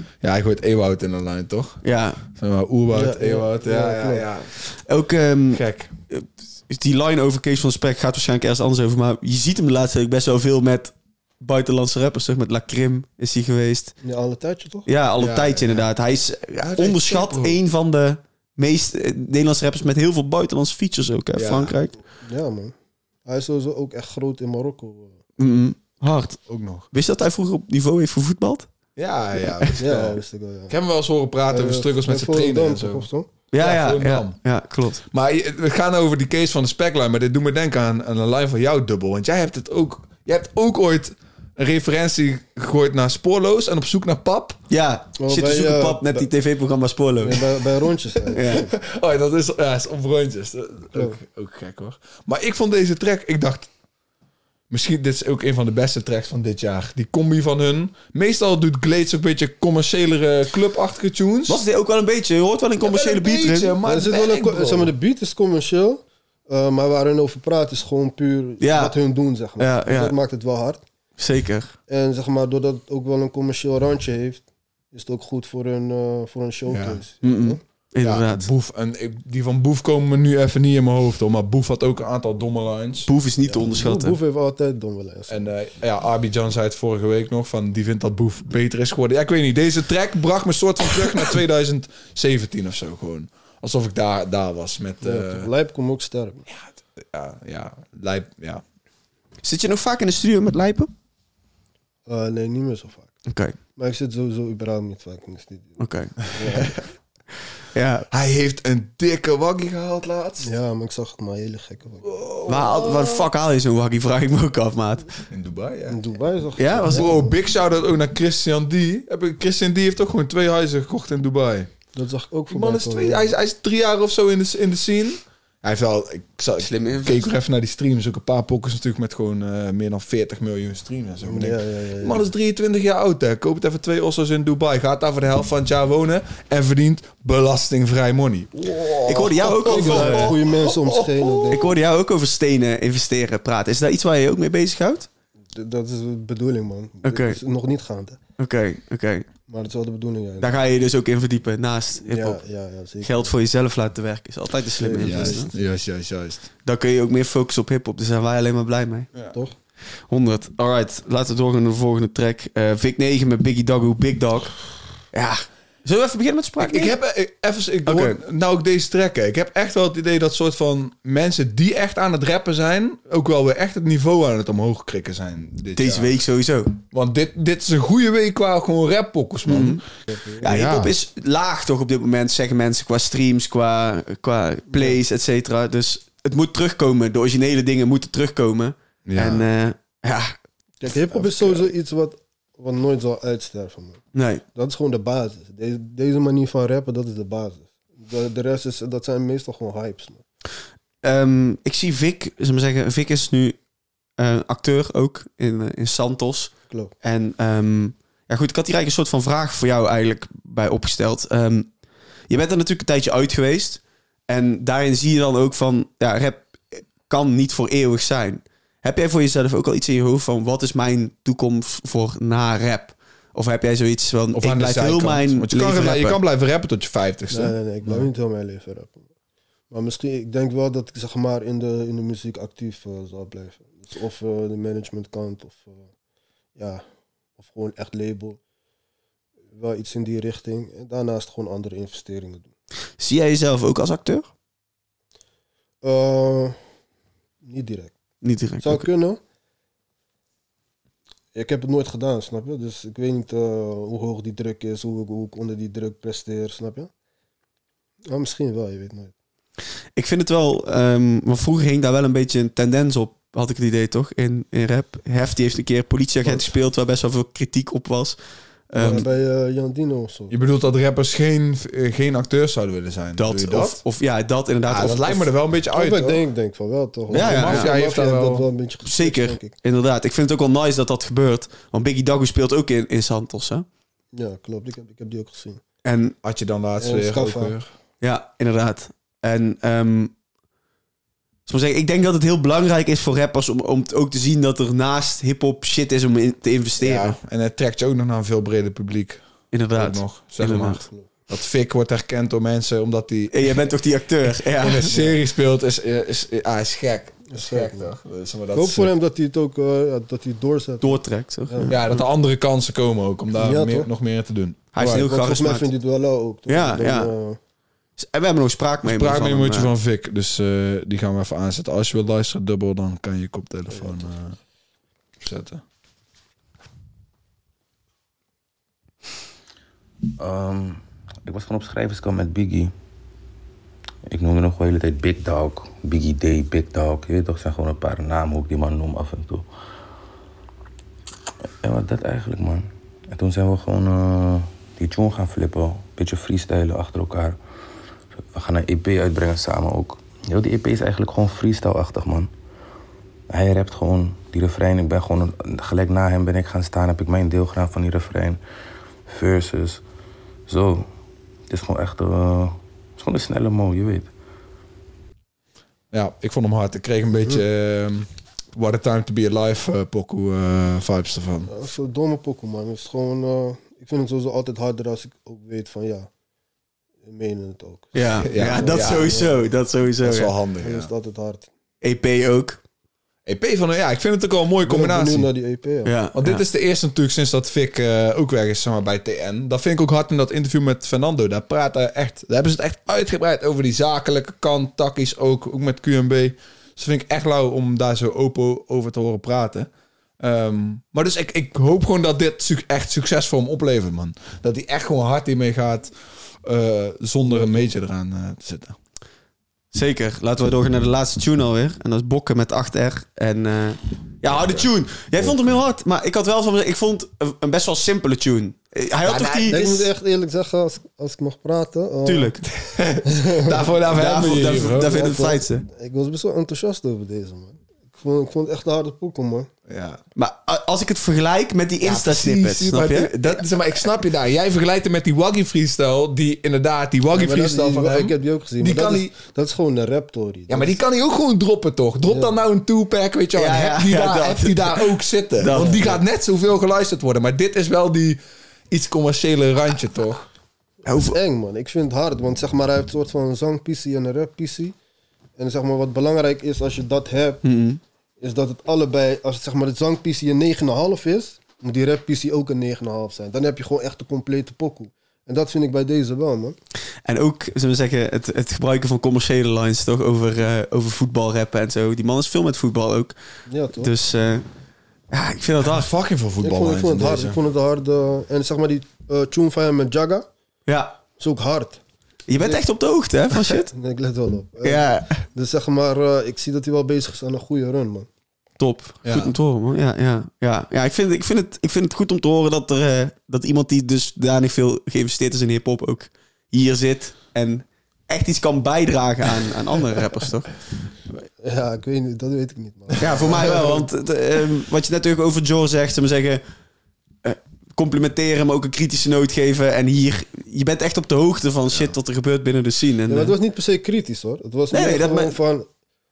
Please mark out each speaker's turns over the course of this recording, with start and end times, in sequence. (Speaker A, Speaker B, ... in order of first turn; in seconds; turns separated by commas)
Speaker A: 0.2-1.8, Speaker B: 1.8-2.2, Speaker A: 2.3-4.5, Speaker C: 2.9-4.2, Speaker B: 4.8-13.9, Speaker A: 5.5-5.9, Speaker C: 14.0-14.9, Speaker B: 14.8-21.9, Speaker A: 15.2-15.9, Speaker A: 16.6-17.6, Speaker A: 21.4-21.7, Speaker C: 22.2-22.7, Speaker C: 23.2-25.2, Speaker B: 25.4-26.4, Speaker A: 26.5-26.9, Speaker B: 26.9-28.7, Speaker A: 28.9-33.1, Speaker C: 29.8-30.7, Speaker C: 31.5-33.3, Speaker B: 33.5-35.0, Speaker A: 33.6-34.4, Speaker A: 35.0-44.6, Speaker B: 44.7-47.4, Speaker C: 45.2-46.3, Speaker C: 47.2-48.7, Speaker B: 48.3-48.7, Speaker A: 48.5-53.7, Speaker A: 54.7-61.6, Speaker B: 61.5-63.7, Speaker A: 62.8-64.9, Speaker C: 63.8-70.8, Speaker B: 68.6-68.9, Speaker B: 69.6-70.1, Speaker B: 71.2-71.7, Speaker C: 71.9-77.6, Speaker A: 76.7-77.0, Speaker B: 77.2-78.5, Speaker A: 78.0-83.1, Speaker B: 83.1-84.2, Speaker C: 83.4-85.5, Speaker A: 85.3-95.5, Speaker C: 95.0-96.5, Speaker A: 96.5-98.6, Speaker B: 99.4-100.9, Speaker C: 102.1-103.1, Speaker B: 103.3-103.6, Speaker C: 103.8-105.8, Speaker B: 105.8-106.2, Speaker A: 106.3-106.8, Speaker C: 106.3-106.7, Speaker B: 107.7-108.0, Speaker A: 108.1-110.5, Speaker C: 110.4-112.0, Speaker A: 112.0-113.3, Speaker B: 112.5-115.2, Speaker A: 115.3-116.1, Speaker C: 115.9-117.3, Speaker B: 116.6-117.1, Speaker A: 116.9-121.7, Speaker C: 121.9-123.3, Speaker A: 122.5-141.7, Speaker B: 126.6-127.3, Speaker C: 131.2-132.3, Speaker B: 139.1-140.3, Speaker C: 139.6-141.7, Speaker B: 141.5-145.1, Speaker C: 145.5-148.2, Speaker B: 147.0-147.4, Speaker B: 148.4-149.3, Speaker C: 149.5-150.5, Speaker B: 150.4-152.4, Speaker C: 152.1-153.3, Speaker B: 153.0-155.5, Speaker C: 154.8-155.5, Speaker A: 155.0-156.4, Speaker B: 156.6-159.1, Speaker B: 160.1-164.5, Speaker B: 165.1-166.9, Speaker A: 166.6-176.2, Speaker B: 167.8-168.2, Speaker B: 175.8-176.8, Speaker A: 176.9-179.8, Speaker B: 179.5-179.8, Speaker C: 180.1-180.4, Speaker A: 180.4-180.9, Speaker B: 180.4-190.3, Speaker C: 184.7-185.0, Speaker A: 189.1-189.4, Speaker C: 190.8-200.2, Speaker B: 194.1-194.4, Speaker B: 201.0-203.6, Speaker B: 204.2-206.5, Speaker B: 207.0-211.7, Speaker B: 212.3-226.2, Speaker A: 224.3-228.1, Speaker C: 227.3-229.1, Speaker C: 229.7-235.9, Speaker C: 236.6-236.8, Speaker C: 237.4-238.4, Speaker C: 239.5-242.5, Speaker B: 243.0-244.3, Speaker C: 245.8-246.6, Speaker C: 247.4-247.9, Speaker B: 248.2-248.9, Speaker C: 248.6-249.2, Speaker C: 251.3-256.9, Speaker C: 258.1-259.1, Speaker B: 259.9-268.2, Speaker B: 268.7-269.1, Speaker C: 268.8-270.3, Speaker A: 270.3-273.8, Speaker B: 273.2-275.3, Speaker A: 274.7-276.2, Speaker C: 275.7-279.5, Speaker B: 277.1-277.7, Speaker A: 277.1-278.5, Speaker B: 278.8-283.6, Speaker C: 284.1-285.6, Speaker B: 285.8-286.1, Speaker A: 286.2-287.7, Speaker C: 286.8-287.5, Speaker B: 288.0-290.1, Speaker B: 291.4-297.2, Speaker A: 296.8-299.2, Speaker B: 299.5-300.8, Speaker A: 299.7-303.5, Speaker B: 303.3-304.9, Speaker A: 304.5-308.9, Speaker C: 304.9-305.2, Speaker C: 307.3-307.9, Speaker C: 308.5-312.0, Speaker B: 310.8-311.7, Speaker A: 311.7-314.7, Speaker C: 313.4-313.9, Speaker B: 314.7-315.7, Speaker C: 314.8-317.4, Speaker B: 316.5-317.1, Speaker B: 318.0-319.7, Speaker A: 318.8-324.4, Speaker C: 323.7-324.1, Speaker A: 325.2-325.6, Speaker D: 330.2-332.7, Speaker D: 334.1-339.5, Speaker D: 341.6-347.4, Speaker D: 348.3-352.3, Speaker D: 353.3-358.4, Speaker D: 359.1-359.8, Speaker D: 360.5-360.9, Speaker D: 361.5-364.1, Speaker A: 365.9-371.5, Speaker C: 371.5-376.1, Speaker C: 377.0-379.4, Speaker B: 377.9-380.3, Speaker A: 378.2-379.2, Speaker A: 380.0-380.9, Speaker C: 380.6-381.5, Speaker B: 381.8-382.6, Speaker A: 383.2-385.3, Speaker C: 384.6-385.9, Speaker B: 385.8-386.4, Speaker A: 386.1-399.7, Speaker A: 400.2-405.9, Speaker A: 406.4-408.8, Speaker C: 407.2-407.7, Speaker B: 409.7-419.7, Speaker A: 414.3-414.6, Speaker A: 419.1-419.8, Speaker C: 419.5-422.3, Speaker B: 422.0-422.4, Speaker A: 422.5-425.0, Speaker C: 423.1-423.7, Speaker B: 423.9-425.6, Speaker C: 424.7-429.5, Speaker A: 429.7-430.0, Speaker B: 430.1-433.4, Speaker A: 431.8-439.1, Speaker C: 437.1-440.8, Speaker A: 440.5-450.2, Speaker C: 442.1-442.3, Speaker B: 443.4-446.0, Speaker C: 445.5-446.0, Speaker B: 450.9-451.2, Speaker C: 450.9-454.7, Speaker C: 455.4-457.4, Speaker B: 457.4-457.8, Speaker C: 458.2-466.6, Speaker B: 467.0-473.1, Speaker C: 473.5-473.9, Speaker B: 473.8-474.4, Speaker B: 475.1-475.9, Speaker A: 475.6-477.4, Speaker C: 476.4-480.3, Speaker B: 480.7-481.0, Speaker C: 481.2-481.8, Speaker B: 482.3-483.7, Speaker C: 482.3-482.6, Speaker C: 483.3-488.1, Speaker B: 484.6-485.2, Speaker B: 488.6-500.5, Speaker A: 489.0-489.3, Speaker C: 501.4-503.8, Speaker B: 503.0-506.4, Speaker B: 507.2-513.3, Speaker C: 513.1-515.7, Speaker B: 514.7-515.4